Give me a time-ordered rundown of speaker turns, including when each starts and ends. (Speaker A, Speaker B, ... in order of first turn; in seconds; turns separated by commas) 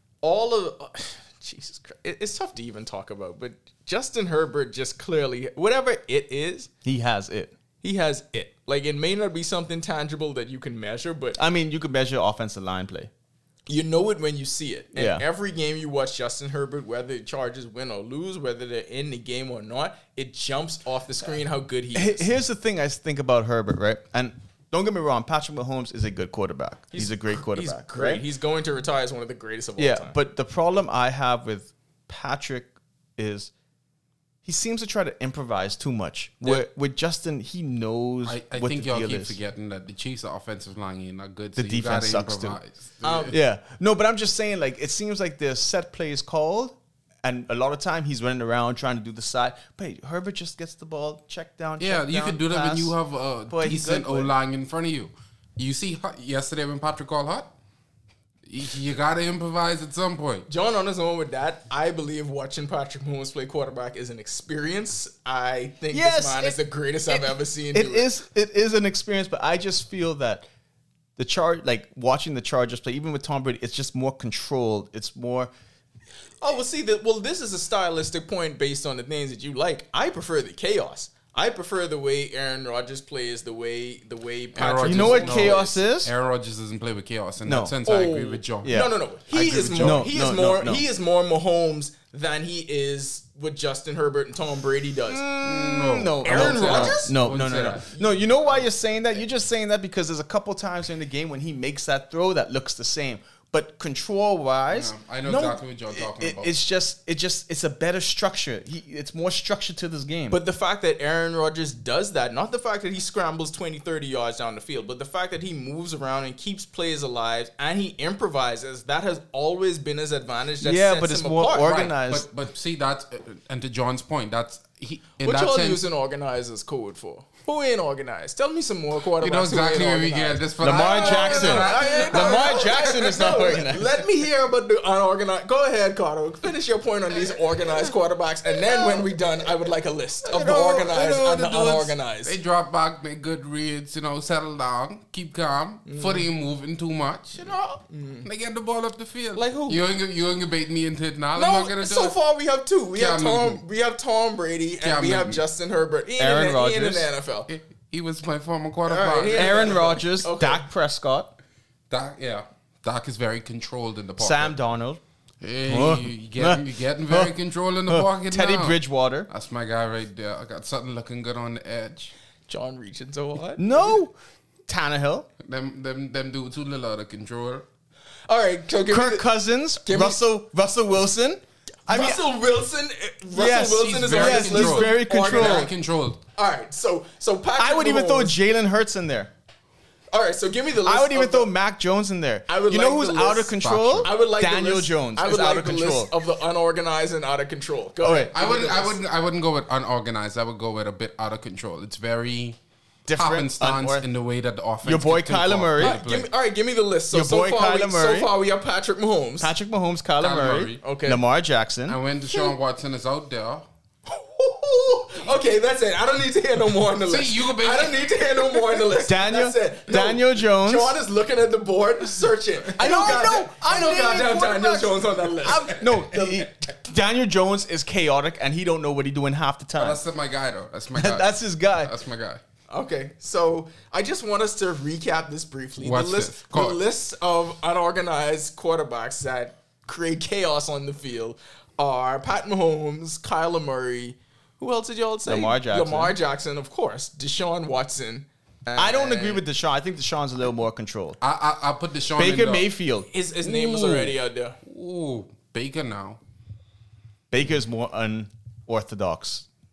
Speaker A: 0.2-6.7, Speaker B: 6.8-7.6, Speaker A: 7.8-11.4, Speaker B: 11.4-13.1, Speaker A: 13.7-22.3, Speaker B: 14.9-15.2, Speaker B: 21.9-28.2, Speaker A: 26.9-30.2, Speaker B: 29.8-33.5, Speaker B: 34.5-39.4, Speaker A: 36.4-36.7, Speaker C: 38.2-43.3, Speaker B: 41.6-42.6, Speaker A: 43.0-43.4, Speaker B: 43.3-53.0, Speaker C: 51.8-57.5, Speaker B: 53.5-54.3, Speaker C: 58.5-60.5, Speaker A: 60.5-68.1, Speaker B: 65.9-70.5, Speaker B: 71.2-75.5, Speaker A: 76.4-85.8, Speaker C: 84.5-90.8, Speaker B: 84.8-86.1, Speaker B: 87.5-87.8, Speaker A: 87.8-95.2, Speaker B: 88.6-89.0, Speaker B: 89.7-90.8, Speaker B: 95.1-104.9, Speaker C: 95.4-97.9, Speaker A: 96.2-98.6, Speaker C: 104.7-106.5, Speaker A: 105.2-105.6, Speaker B: 106.0-110.4, Speaker A: 110.3-121.8, Speaker B: 120.6-122.3, Speaker C: 121.6-125.8, Speaker A: 125.2-142.3, Speaker C: 129.2-132.7, Speaker B: 130.6-134.0, Speaker C: 140.2-147.6, Speaker A: 145.9-146.3, Speaker A: 147.4-148.3, Speaker C: 148.2-152.2, Speaker A: 149.3-149.8, Speaker A: 151.3-157.5, Speaker C: 153.0-153.6, Speaker C: 154.8-155.4, Speaker B: 156.2-157.1, Speaker C: 157.5-159.8, Speaker A: 158.9-160.6, Speaker B: 159.3-161.4, Speaker C: 161.9-164.5, Speaker B: 164.2-165.0, Speaker C: 165.4-172.1, Speaker B: 165.6-167.3, Speaker B: 167.9-169.3, Speaker A: 172.5-173.9, Speaker B: 173.6-174.2, Speaker B: 174.7-175.3, Speaker C: 175.4-177.7, Speaker A: 178.3-179.3, Speaker B: 178.9-182.3, Speaker A: 179.8-180.2, Speaker A: 181.9-185.7, Speaker B: 183.3-185.7, Speaker C: 183.8-186.2, Speaker A: 186.4-188.4, Speaker B: 187.6-189.3, Speaker A: 190.1-191.5, Speaker B: 190.8-196.1, Speaker A: 192.5-199.0, Speaker C: 193.6-194.1, Speaker B: 198.0-198.3, Speaker C: 198.3-202.6, Speaker B: 203.1-204.1, Speaker C: 203.1-206.3, Speaker B: 204.8-206.0, Speaker A: 205.8-209.5, Speaker B: 207.1-208.3, Speaker B: 209.4-212.0, Speaker C: 210.2-210.8, Speaker A: 210.8-211.2, Speaker C: 211.9-213.7, Speaker A: 212.3-212.5, Speaker A: 214.1-226.5, Speaker C: 217.1-218.2, Speaker B: 219.0-221.0, Speaker B: 222.8-230.0, Speaker C: 229.8-232.4, Speaker B: 230.9-231.9, Speaker A: 232.7-249.4, Speaker C: 235.8-236.8, Speaker B: 245.2-246.2, Speaker B: 248.8-251.2, Speaker C: 251.2-252.7, Speaker B: 252.2-253.1, Speaker A: 253.1-254.6, Speaker C: 253.4-256.2, Speaker B: 257.3-259.5